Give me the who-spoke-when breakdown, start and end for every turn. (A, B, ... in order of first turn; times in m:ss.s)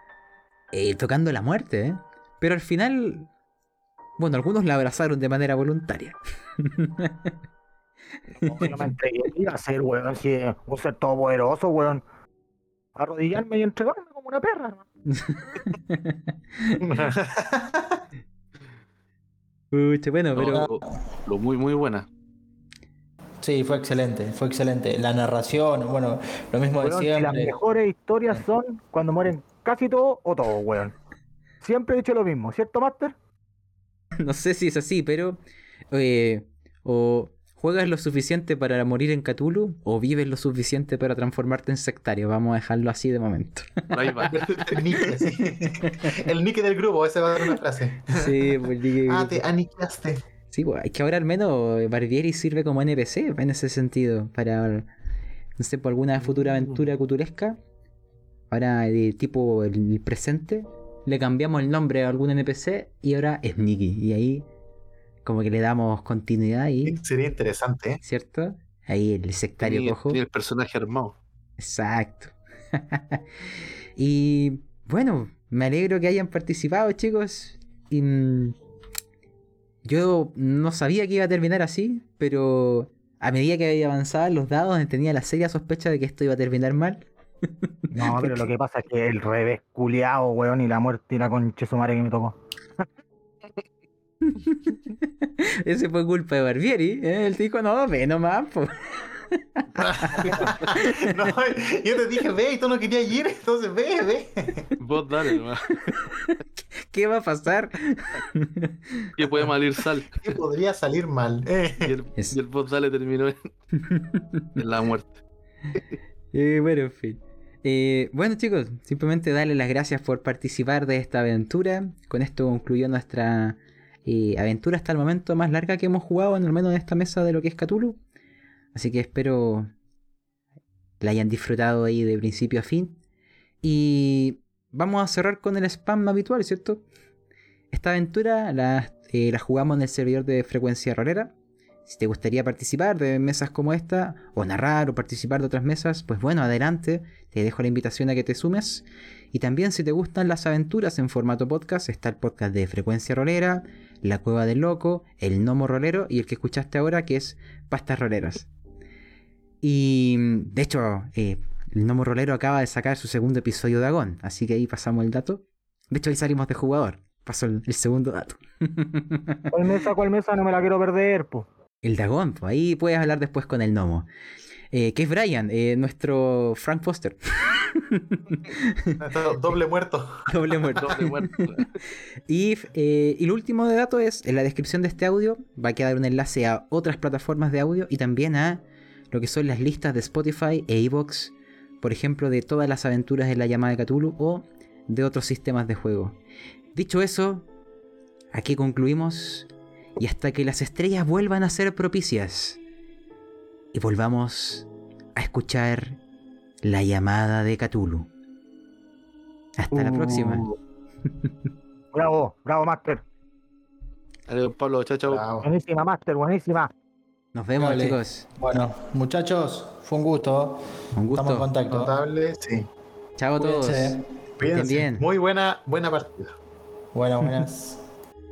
0:00.7-0:03.3 A
0:04.2-0:07.3 A
0:08.4-0:12.0 B
0:12.9-0:14.8 B
0:15.1-0:16.8 A
0:16.8-0:18.0 C
0:19.7-0:20.7 A
0:20.4-0:22.1 D
0:23.4-0:27.6 E
0:26.8-0:30.9 B
0:31.6-0:33.2 B
0:34.2-0:35.4 A
0:35.9-0:46.1 A
0:43.9-0:44.8 D
0:44.2-0:48.5 C
0:48.1-0:49.4 A
0:49.1-0:50.2 C
0:50.5-0:54.9 A
0:55.6-0:57.6 A
0:58.5-1:04.5 A
1:05.2-1:07.0 A
1:06.8-1:08.0 C
1:08.0-1:10.2 A
1:09.6-1:11.2 D
1:11.6-1:13.2 A
1:14.0-1:18.6 A
1:19.8-1:27.1 A
1:27.9-1:32.8 B
1:27.9-1:28.5 A
1:34.3-1:39.1 A
1:39.6-1:41.2 A
1:39.8-1:44.7 C
1:40.2-1:40.4 B
1:44.8-1:46.0 D
1:45.9-1:49.1 A
1:49.2-1:50.1 D
1:50.2-1:51.9 C
1:51.8-1:53.5 D
1:53.8-1:54.5 A
1:54.6-1:55.2 D
1:56.3-2:08.0 A
2:08.7-2:09.7 A
2:11.0-2:13.0 A
2:13.6-2:16.8 A
2:17.7-2:21.3 A
2:21.8-2:38.5 A
2:39.6-2:49.5 A
2:49.5-2:51.5 B
2:51.8-2:54.1 A
2:54.7-2:59.0 A
2:59.0-3:00.2 C
3:00.3-3:01.4 A
3:00.7-3:01.7 D
3:02.3-3:16.2 A
3:16.8-3:17.5 A
3:18.3-3:22.6 A
3:23.7-3:26.0 A
3:26.6-3:28.1 A
3:29.6-3:30.4 A
3:29.7-3:30.6 B
3:31.9-3:33.0 B
3:34.3-3:35.2 D
3:35.1-3:35.5 C
3:35.4-3:36.7 B
3:37.3-3:38.3 A
3:37.6-3:41.9 E
3:41.0-3:41.6 A
3:41.7-3:42.7 C
3:43.2-3:45.0 A
3:43.4-3:44.0 E
3:44.4-3:46.4 C
3:46.9-3:47.8 E